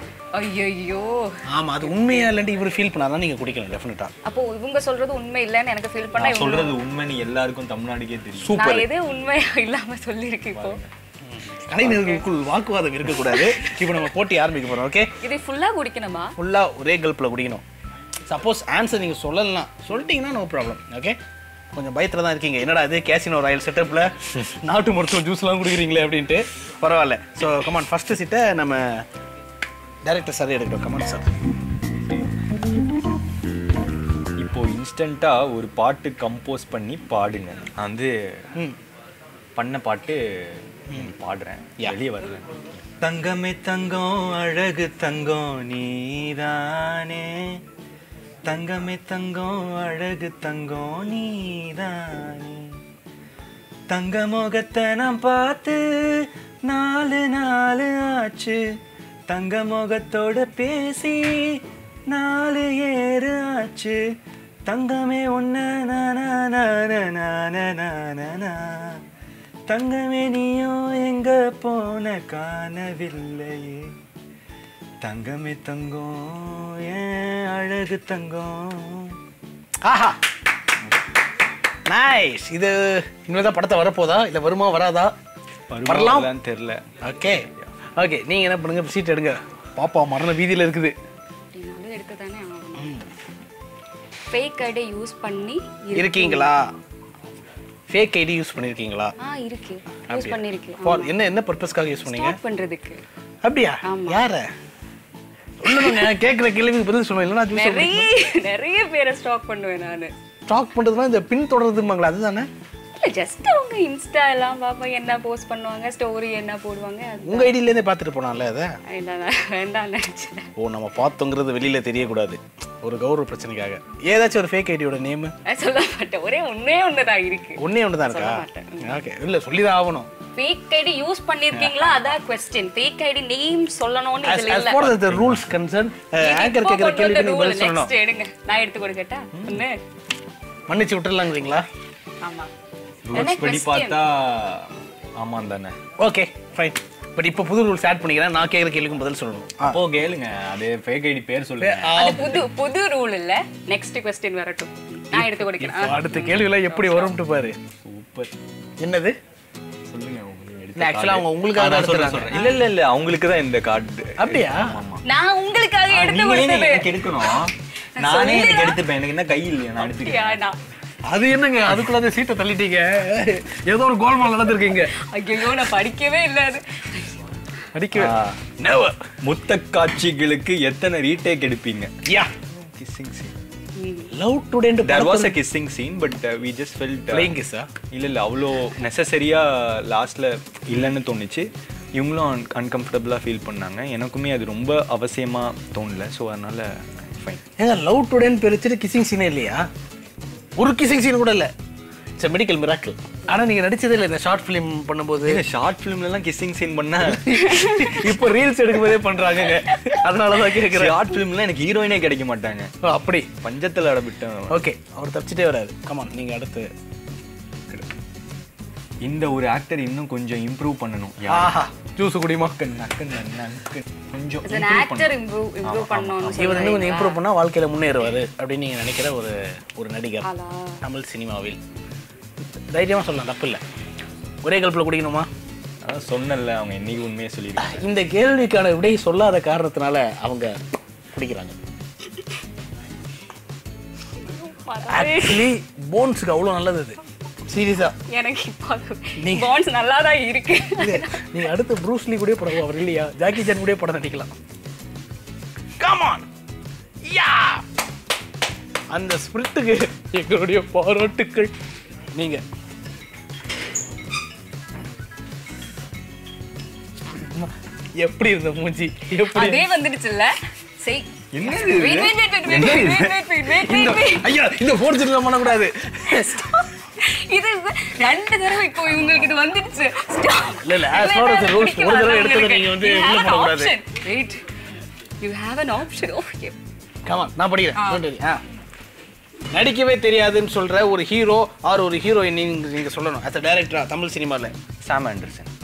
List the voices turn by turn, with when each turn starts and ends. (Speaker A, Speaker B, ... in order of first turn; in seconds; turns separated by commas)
Speaker A: 0.3-1.3, Speaker B: 1.5-4.1, Speaker A: 1.8-2.2, Speaker A: 4.2-6.8, Speaker C: 6.1-8.6, Speaker B: 8.4-8.9, Speaker A: 8.5-10.8, Speaker C: 10.5-10.9, Speaker B: 11.2-15.1, Speaker A: 11.8-12.2, Speaker A: 13.2-13.6, Speaker A: 15.2-16.3, Speaker B: 16.4-17.6, Speaker B: 18.3-21.2, Speaker B: 21.7-29.0, Speaker B: 30.0-31.3, Speaker C: 34.4-38.1, Speaker C: 39.5-40.2, Speaker C: 40.9-42.5, Speaker C: 43.0-47.5, Speaker C: 48.5-52.7, Speaker C: 53.9-58.6, Speaker C: 59.3-61.5, Speaker C: 62.1-64.0, Speaker C: 64.7-69.0, Speaker C: 69.7-73.9, Speaker C: 75.0-79.1, Speaker B: 79.8-80.2, Speaker B: 81.9-85.1, Speaker C: 85.7-87.7, Speaker B: 85.8-86.3, Speaker B: 87.0-90.9, Speaker A: 91.5-93.0, Speaker B: 92.8-93.0, Speaker A: 94.3-96.5, Speaker B: 96.0-96.7, Speaker B: 97.9-99.1, Speaker A: 99.2-101.1, Speaker B: 100.1-102.4, Speaker A: 102.1-103.0, Speaker B: 103.4-104.5, Speaker A: 103.8-104.2, Speaker B: 105.6-108.1, Speaker A: 105.7-106.1, Speaker A: 107.5-110.1, Speaker B: 110.5-112.5, Speaker A: 112.9-117.5, Speaker B: 117.2-118.8, Speaker A: 118.9-120.5, Speaker B: 120.6-125.3, Speaker A: 125.4-129.0, Speaker B: 127.6-130.1, Speaker A: 130.3-134.8, Speaker C: 131.5-132.1, Speaker B: 134.2-137.9, Speaker C: 134.8-135.5, Speaker A: 136.2-139.8, Speaker B: 139.3-139.6, Speaker B: 140.7-141.7, Speaker A: 142.2-142.5, Speaker C: 143.0-145.8, Speaker A: 143.1-144.0, Speaker B: 146.0-149.8, Speaker C: 149.7-151.9, Speaker B: 151.6-152.4, Speaker A: 151.9-157.1, Speaker B: 155.1-157.6, Speaker C: 157.8-158.3, Speaker B: 158.8-159.1, Speaker C: 159.9-165.0, Speaker B: 160.8-162.3, Speaker B: 164.2-164.8, Speaker A: 165.0-168.8, Speaker C: 165.9-170.4, Speaker A: 169.8-170.6, Speaker B: 171.1-174.9, Speaker A: 174.8-177.2, Speaker B: 177.7-179.0, Speaker C: 177.9-178.3, Speaker C: 179.2-181.9, Speaker B: 182.1-182.3, Speaker C: 182.5-183.3, Speaker A: 183.8-184.1, Speaker B: 184.1-185.3, Speaker C: 184.8-187.3, Speaker B: 187.1-187.7, Speaker C: 187.9-197.4, Speaker B: 197.6-199.7, Speaker B: 200.6-201.5, Speaker B: 202.2-205.4, Speaker C: 205.2-207.2, Speaker B: 207.1-211.0, Speaker A: 207.3-208.1, Speaker C: 210.7-212.7, Speaker B: 212.8-213.3, Speaker C: 213.4-214.6, Speaker B: 214.5-216.7, Speaker C: 217.7-218.0, Speaker C: 219.0-221.5, Speaker B: 221.2-222.6, Speaker C: 222.6-226.6, Speaker A: 224.4-227.2, Speaker B: 226.3-230.3, Speaker A: 230.2-230.8, Speaker B: 230.8-231.6, Speaker B: 232.7-233.6, Speaker B: 234.4-235.3, Speaker C: 235.8-237.8, Speaker B: 237.6-240.6, Speaker B: 241.1-241.6, Speaker A: 244.3-245.5, Speaker B: 244.9-248.0, Speaker A: 248.1-251.3, Speaker B: 249.2-249.5, Speaker B: 250.8-254.3, Speaker B: 255.8-256.3, Speaker B: 257.0-257.6, Speaker B: 258.9-261.5, Speaker B: 262.1-262.4, Speaker B: 267.1-269.6, Speaker A: 269.3-274.3, Speaker C: 271.3-273.3, Speaker B: 273.6-276.4, Speaker A: 276.0-284.4, Speaker B: 280.5-283.7, Speaker A: 285.2-286.6, Speaker B: 287.1-288.4, Speaker A: 287.7-288.0, Speaker B: 289.5-294.5, Speaker C: 294.8-295.5